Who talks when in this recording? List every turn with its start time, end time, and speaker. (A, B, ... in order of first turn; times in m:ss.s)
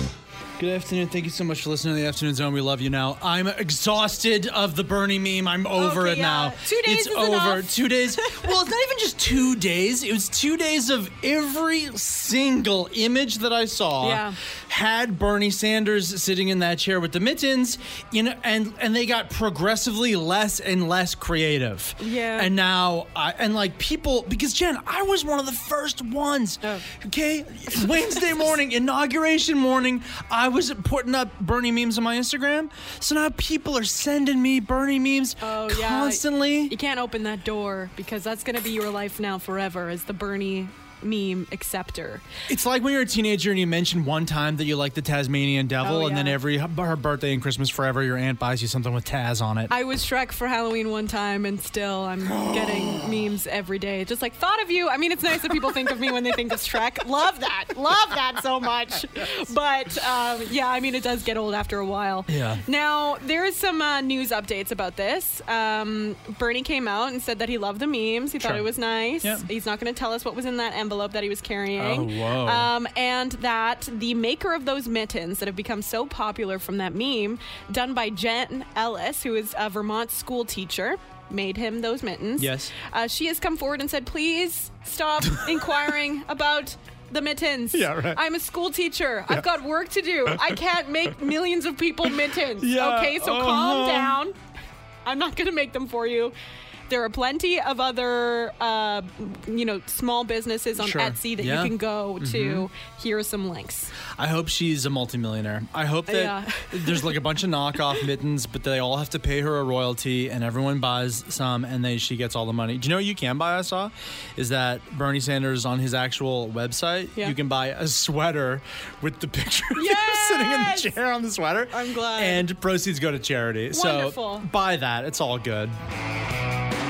0:00.6-0:36.8 A
0:05.8-0:08.5 B
0:14.0-0:14.4 B
0:22.0-0:22.5 B
0:35.4-0:42.2 B
0:42.5-0:49.7 A
0:45.8-0:46.4 B
0:49.7-1:34.4 B
0:52.2-0:53.1 A
1:02.3-1:02.6 A
1:08.4-1:08.6 A
1:11.8-1:12.7 A
1:22.4-1:22.7 A
1:27.7-1:28.2 A
1:30.3-1:30.6 A
1:32.6-1:34.2 A
1:35.1-1:36.3 B
1:36.9-1:43.9 B
1:40.8-1:42.7 A
1:44.1-2:05.8 A
1:46.1-1:47.1 B
1:59.8-2:00.9 B
2:01.7-2:02.5 B
2:03.7-2:04.5 B